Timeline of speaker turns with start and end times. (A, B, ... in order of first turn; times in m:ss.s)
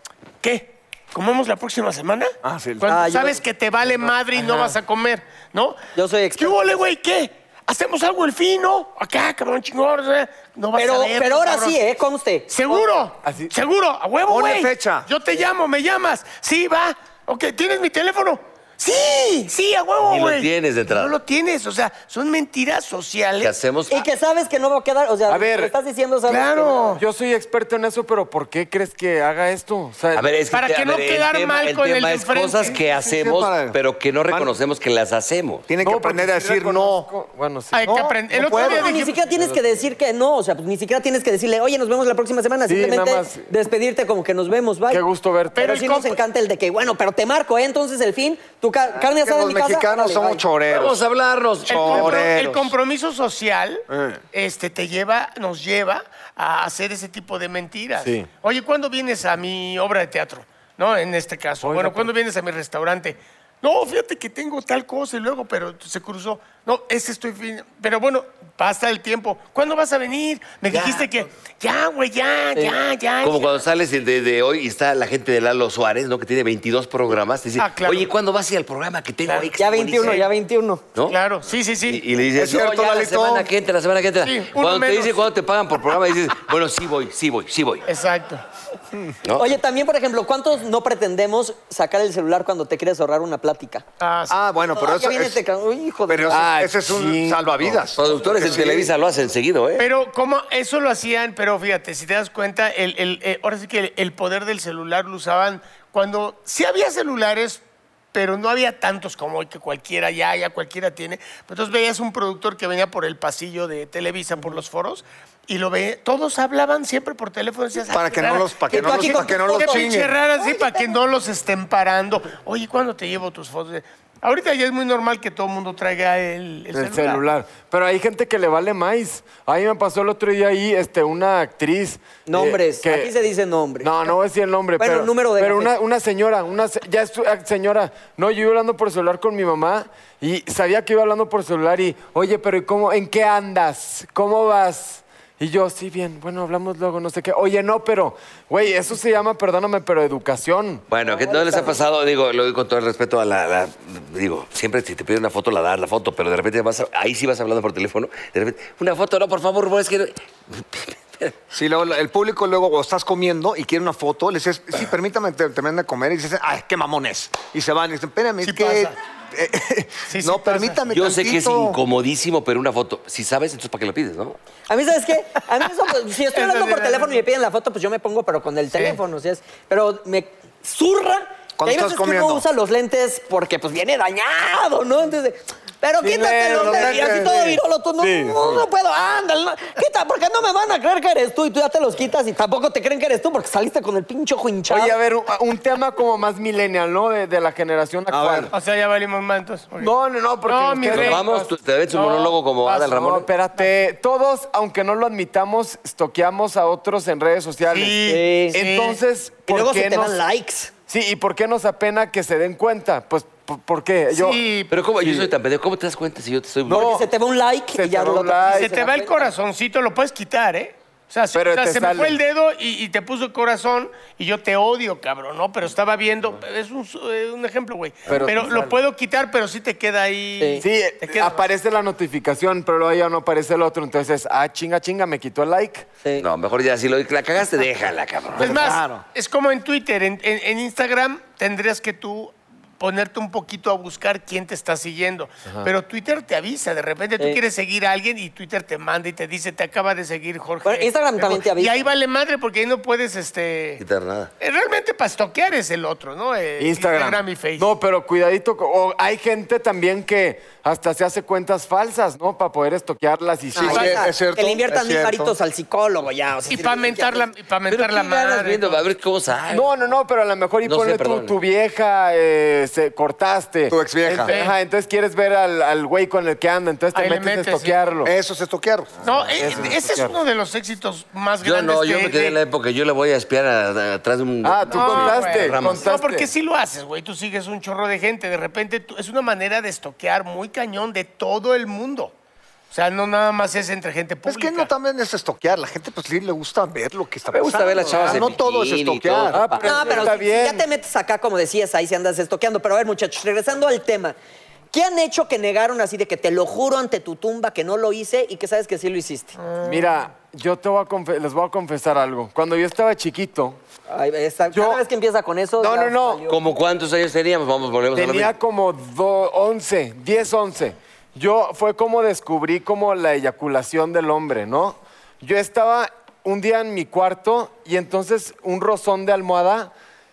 0:00.4-0:05.8 A
0:02.5-0:02.9 B
0:02.6-0:02.8 C
0:02.9-0:03.4 D
0:04.4-0:04.7 B
0:05.9-0:06.7 D
0:06.4-0:11.8 A
0:10.7-0:12.8 D
0:12.5-0:23.5 A
0:13.2-0:13.5 B
0:14.2-0:15.1 C
0:20.0-0:21.2 E
0:23.4-0:24.0 E
0:23.9-0:26.9 D
0:25.3-0:25.7 B
0:26.3-0:27.0 A
0:27.0-0:30.2 B
0:30.1-0:35.6 E
0:30.5-0:32.8 A
0:33.0-0:33.8 C
0:35.7-0:37.1 C
0:35.8-0:37.9 B
0:37.7-0:39.2 A
0:37.8-0:38.9 C
0:38.6-0:45.0 D
0:39.3-0:39.8 B
0:42.7-0:43.5 B
0:44.9-0:45.8 B
0:45.5-0:46.2 A
0:45.6-0:50.4 D
0:49.0-0:51.0 C
0:50.7-0:52.0 E
0:51.7-1:13.5 A
0:51.7-0:52.7 C
0:53.9-0:54.2 C
0:58.0-0:58.3 B
1:01.6-1:02.1 B
1:10.7-1:11.0 E
1:13.2-1:20.2 E
1:17.6-1:18.1 A
1:19.2-1:20.2 A
1:19.6-1:20.8 D
1:21.1-1:22.0 A
1:21.8-1:27.8 E
1:22.4-1:23.5 C
1:24.2-1:25.2 A
1:27.8-1:28.4 A
1:29.2-1:29.6 E
1:29.4-1:33.8 D
1:34.0-1:34.4 A
1:34.3-1:35.4 C
1:34.7-1:36.4 D
1:36.1-1:38.9 C
1:36.3-1:37.9 B
1:38.0-1:39.9 E
1:39.8-1:47.6 A
1:48.1-2:07.2 A
1:57.9-2:00.1 C
1:58.7-2:01.0 D
2:06.7-2:13.1 B
2:12.2-2:14.1 D
2:13.8-2:30.8 B
2:14.8-2:15.7 D
2:30.9-2:41.4 E
2:31.0-2:31.8 D
2:41.5-2:51.8 C
2:48.4-2:48.9 A
2:50.1-2:50.8 A
2:50.9-2:54.4 E
2:54.7-3:14.9 D
2:56.3-2:57.1 A
3:01.6-3:02.4 C
3:06.0-3:08.6 B
3:06.5-3:07.6 C
3:14.7-3:18.5 B
3:18.1-3:18.5 C
3:18.5-3:19.9 A
3:19.8-3:30.2 B
3:20.4-3:21.2 A
3:20.9-3:23.3 E
3:27.7-3:29.0 A
3:28.1-3:28.6 D
3:29.5-3:30.7 D
3:30.9-3:34.4 B
3:34.1-3:34.7 A
3:34.7-3:36.9 E
3:35.0-3:35.3 B
3:36.6-3:39.3 D
3:36.7-3:37.1 B
3:37.7-3:38.7 B
3:38.4-3:51.4 A
3:41.3-3:42.2 B
3:48.1-3:48.8 B
3:50.4-3:50.6 D
3:50.6-3:55.9 B
3:56.2-3:58.6 E
3:58.4-4:13.8 A
3:58.4-3:58.8 B
3:58.5-3:59.0 C
4:10.6-4:11.8 D
4:13.8-4:14.3 E
4:14.4-4:17.7 A
4:16.6-4:23.9 B
4:23.5-4:27.3 D
4:23.6-4:25.4 C
4:26.5-4:28.8 A
4:27.7-4:29.7 E
4:29.5-4:38.1 B
4:30.6-4:31.4 E
4:33.7-4:34.3 C
4:34.3-4:34.5 A
4:36.9-4:37.8 A
4:38.0-4:39.0 C
4:39.0-4:42.4 A
4:39.1-4:40.2 B
4:41.4-4:45.9 E
4:44.4-4:46.3 B
4:44.7-4:52.1 A
4:52.7-4:54.7 A
4:54.2-4:59.4 C
4:57.3-4:59.9 E
4:59.3-5:00.6 B
4:59.6-5:04.2 D
5:04.7-5:09.4 D
5:09.4-5:09.9 A
5:09.6-5:13.6 B
5:13.9-5:16.4 D
5:14.5-5:14.8 B
5:15.6-5:16.2 B
5:16.3-5:18.3 E
5:17.9-5:29.7 B